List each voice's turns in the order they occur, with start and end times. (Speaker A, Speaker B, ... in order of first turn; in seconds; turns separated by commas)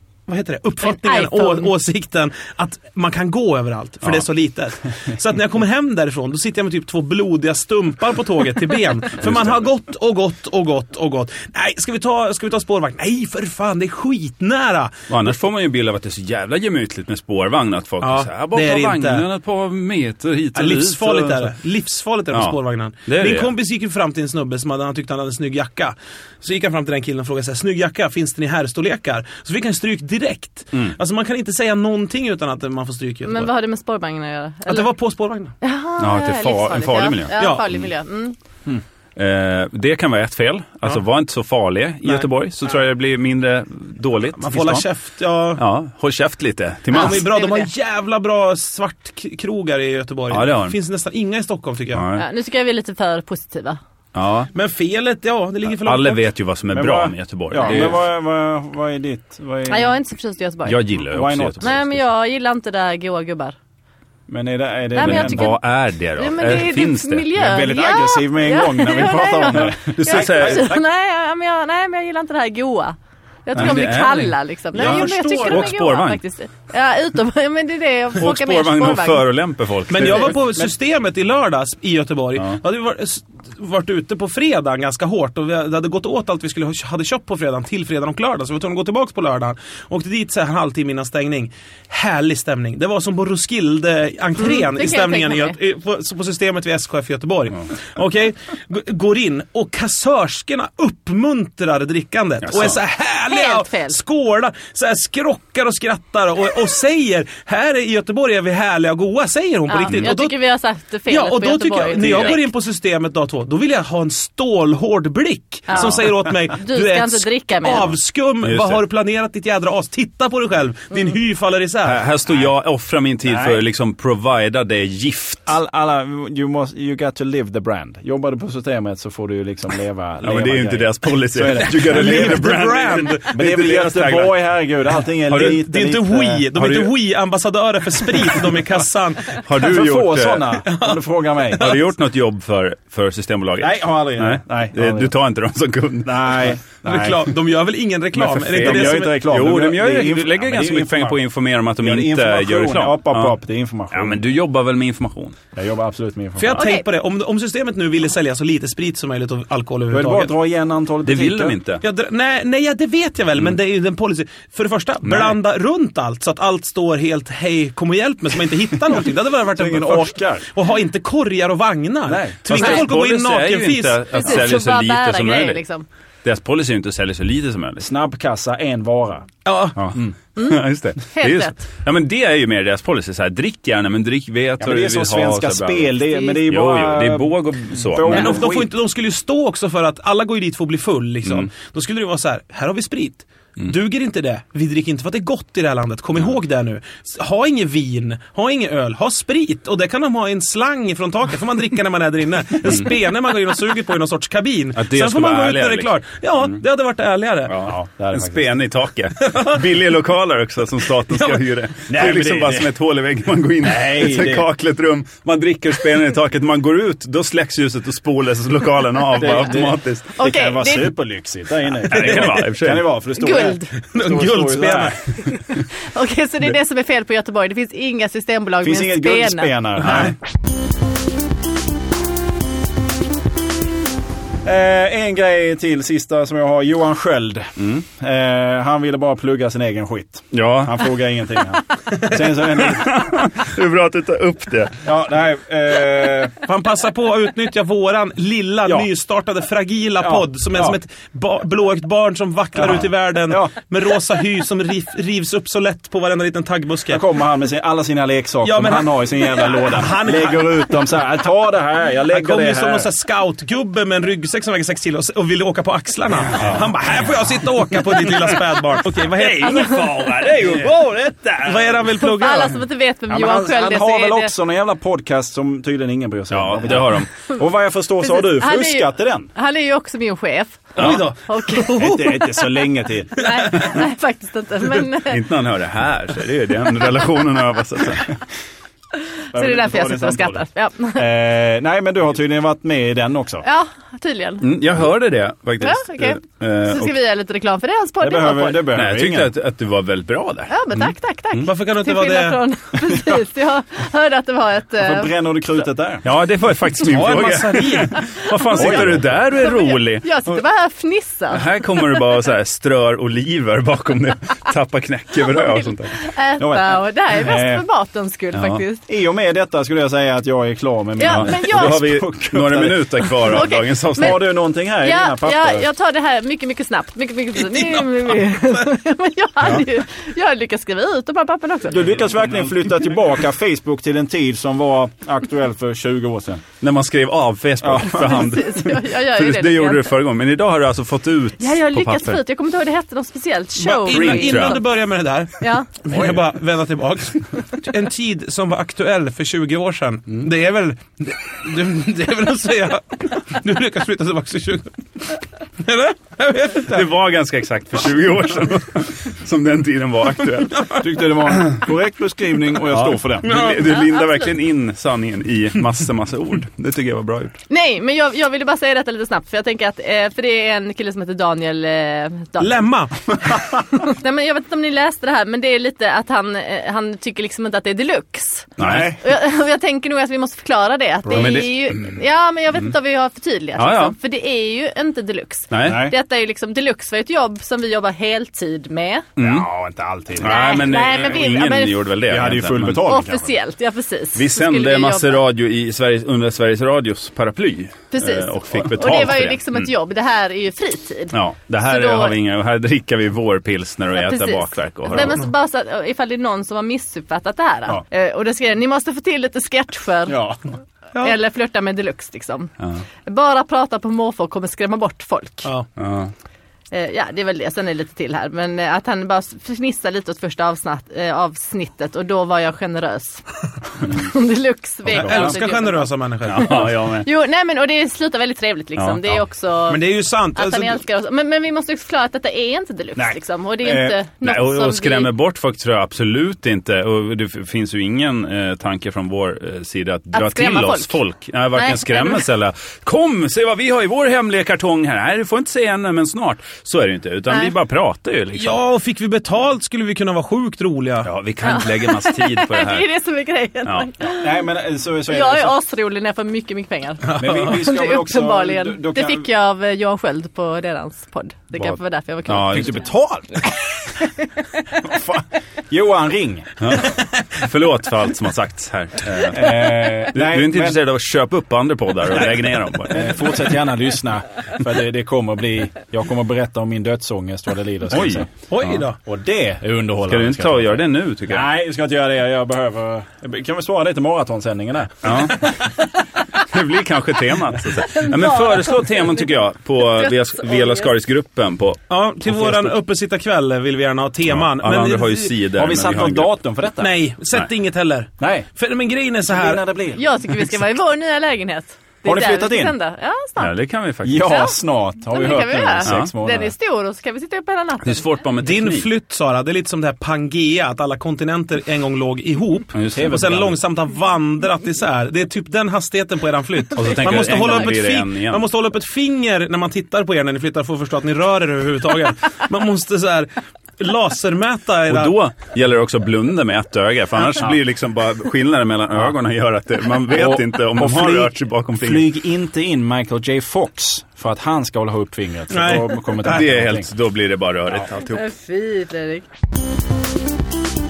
Speaker A: 0.3-15.1, Speaker B: 0.8-1.7, Speaker C: 9.2-9.6, Speaker C: 15.1-21.5, Speaker A: 18.0-19.2, Speaker A: 20.6-33.5, Speaker C: 22.3-23.5, Speaker B: 33.2-34.9, Speaker A: 34.7-35.5, Speaker B: 35.6-38.4, Speaker C: 36.0-37.8, Speaker A: 37.4-37.7, Speaker C: 39.2-44.9, Speaker A: 44.4-45.6, Speaker C: 45.6-47.3, Speaker A: 46.9-52.1, Speaker B: 46.9-47.7, Speaker C: 50.3-50.8, Speaker C: 51.9-52.2, Speaker B: 52.1-53.8, Speaker C: 54.1-54.5, Speaker A: 54.5-56.3, Speaker C: 55.8-58.0, Speaker D: 56.7-60.0, Speaker B: 59.7-61.0, Speaker C: 60.6-61.9, Speaker D: 61.1-61.8, Speaker B: 61.6-63.5, Speaker D: 64.3-65.5, Speaker B: 64.9-65.6, Speaker C: 65.0-67.3, Speaker B: 66.2-79.3, Speaker D: 67.3-70.8, Speaker C: 69.5-70.8, Speaker C: 73.5-76.2, Speaker A: 74.7-75.7, Speaker C: 78.2-80.4, Speaker A: 79.9-110.4, Speaker B: 94.4-95.6, Speaker C: 102.4-102.8, Speaker B: 103.3-104.0, Speaker B: 109.7-112.5, Speaker A: 111.1-122.0, Speaker C: 111.9-112.4, Speaker B: 115.7-117.9, Speaker C: 118.4-118.8, Speaker C: 121.8-125.5, Speaker D: 123.2-123.6, Speaker D: 125.5-132.6, Speaker C: 130.2-134.4, Speaker A: 131.7-133.4, Speaker D: 133.3-136.5, Speaker C: 135.3-135.6, Speaker A: 135.3-139.4, Speaker C: 136.6-136.9, Speaker C: 139.3-140.6, Speaker D: 139.6-141.8, Speaker A: 140.6-141.0, Speaker A: 141.6-141.8, Speaker C: 141.6-146.6, Speaker D: 143.6-145.1, Speaker D: 146.1-147.3, Speaker A: 146.8-149.2, Speaker C: 148.2-153.4, Speaker D: 148.5-151.2, Speaker D: 151.8-154.2, Speaker C: 153.9-155.4, Speaker D: 155.6-156.6, Speaker A: 156.4-160.3, Speaker B: 156.5-156.8, Speaker D: 159.9-161.6, Speaker C: 161.1-161.8, Speaker A: 161.8-174.4, Speaker D: 169.6-170.5, Speaker D: 172.1-172.5, Speaker C: 172.4-175.6, Speaker B: 172.5-172.8, Speaker B: 174.1-175.9, Speaker C: 176.2-177.9, Speaker D: 177.8-179.3, Speaker A: 179.5-179.8, Speaker C: 179.9-188.4, Speaker B: 180.4-181.6, Speaker D: 184.6-188.7, Speaker B: 186.1-186.4, Speaker A: 188.1-207.6, Speaker C: 191.2-191.5, Speaker C: 204.8-205.9, Speaker C: 207.5-220.2, Speaker D: 207.6-208.5, Speaker A: 209.2-209.7, Speaker A: 211.1-211.4, Speaker D: 211.9-212.8, Speaker D: 213.6-214.5, Speaker D: 219.2-225.0, Speaker B: 220.2-221.0, Speaker C: 221.9-222.9, Speaker A: 221.9-222.4, Speaker B: 223.2-223.7, Speaker A: 223.9-225.0, Speaker B: 225.9-229.9, Speaker D: 228.6-230.2, Speaker D: 234.4-243.0, Speaker C: 240.3-240.9, Speaker C: 242.6-244.8, Speaker D: 244.8-246.4, Speaker A: 246.4-257.0, Speaker D: 250.0-250.8, Speaker D: 252.6-253.5, Speaker D: 256.9-262.9, Speaker A: 258.4-260.9, Speaker A: 262.1-270.7, Speaker C: 269.2-271.3, Speaker B: 269.5-270.3, Speaker D: 269.7-271.8, Speaker A: 271.4-272.6, Speaker B: 272.0-274.3, Speaker D: 273.1-279.3, Speaker C: 276.3-277.1, Speaker B: 278.0-282.4, Speaker A: 280.8-282.5, Speaker C: 280.8-281.0, Speaker D: 281.8-283.3, Speaker A: 283.2-283.6, Speaker B: 283.2-285.3, Speaker C: 285.1-288.1, Speaker B: 289.3-291.1, Speaker D: 289.3-293.4, Speaker B: 293.4-294.5, Speaker C: 294.4-297.0, Speaker B: 295.6-298.7, Speaker D: 298.0-299.3, Speaker C: 298.7-300.5, Speaker B: 300.5-305.1, Speaker A: 301.5-302.4, Speaker D: 304.8-306.1, Speaker C: 306.0-310.2, Speaker A: 306.8-308.0, Speaker B: 307.9-312.0, Speaker D: 308.6-309.2, Speaker C: 311.3-316.0, Speaker B: 315.3-318.9, Speaker D: 316.4-317.6, Speaker C: 318.4-318.6, Speaker D: 318.9-325.7, Speaker B: 321.0-321.9, Speaker C: 321.0-324.2, Speaker B: 323.3-331.9, Speaker D: 331.7-336.4, Speaker C: 332.1-332.5, Speaker C: 336.6-342.2, Speaker D: 337.6-338.1, Speaker B: 337.8-339.9, Speaker B: 341.4-344.6, Speaker C: 343.6-344.6, Speaker A: 343.8-356.8, Speaker B: 345.4-345.7, Speaker C: 356.7-360.7, Speaker D: 360.8-363.4, Speaker C: 362.7-367.4, Speaker A: 363.2-363.7, Speaker B: 363.8-364.3, Speaker B: 367.5-372.7, Speaker A: 372.4-373.4, Speaker B: 373.6-389.1, Speaker C: 378.6-379.0, Speaker D: 378.6-379.0, Speaker C: 381.1-381.9, Speaker C: 383.6-383.9, Speaker C: 385.5-385.9, Speaker D: 385.6-385.9, Speaker C: 389.2-389.5, Speaker D: 389.2-390.7, Speaker C: 390.2-392.9, Speaker B: 390.2-391.8, Speaker D: 392.1-393.3, Speaker B: 392.8-395.2, Speaker C: 394.1-399.7, Speaker B: 397.9-402.2, Speaker C: 401.1-405.2, Speaker B: 403.9-410.2, Speaker D: 410.1-410.4, Speaker B: 411.0-412.5, Speaker B: 413.1-415.5, Speaker C: 415.8-416.1, Speaker B: 416.7-423.2, Speaker B: 423.8-435.1, Speaker A: 424.9-426.7, Speaker C: 425.0-425.3, Speaker C: 426.2-427.1, Speaker C: 428.8-429.2, Speaker A: 429.7-430.8, Speaker D: 433.0-434.0, Speaker C: 434.2-448.6, Speaker B: 440.1-441.0, Speaker B: 441.6-442.3, Speaker B: 447.3-447.6, Speaker A: 448.4-451.1, Speaker C: 451.1-452.9, Speaker B: 451.4-454.4, Speaker D: 454.1-455.6, Speaker B: 455.1-462.9, Speaker A: 457.1-457.6, Speaker D: 457.2-459.3, Speaker C: 461.6-463.3, Speaker B: 464.0-464.3, Speaker D: 464.8-466.5, Speaker C: 466.6-473.1, Speaker D: 469.2-470.8, Speaker D: 472.9-478.3, Speaker C: 477.9-478.7, Speaker A: 478.5-479.0, Speaker D: 479.1-485.3, Speaker C: 480.1-481.5, Speaker C: 485.0-485.5, Speaker C: 486.4-491.8, Speaker B: 488.0-488.8, Speaker B: 490.0-490.9, Speaker A: 491.9-495.3, Speaker C: 492.4-492.7, Speaker C: 494.3-496.3, Speaker D: 495.5-497.0, Speaker A: 496.8-499.6, Speaker D: 498.2-498.5, Speaker D: 499.3-500.1, Speaker B: 500.0-503.5, Speaker D: 502.0-502.8, Speaker C: 503.4-504.4, Speaker D: 504.0-506.5, Speaker B: 504.2-508.2, Speaker C: 505.9-506.1, Speaker C: 507.8-508.9, Speaker A: 508.4-525.2, Speaker C: 512.7-513.4, Speaker D: 512.9-513.5, Speaker C: 516.8-518.4, Speaker C: 524.9-532.1, Speaker D: 530.1-536.9, Speaker A: 535.5-536.5, Speaker C: 536.2-538.3, Speaker B: 538.1-539.3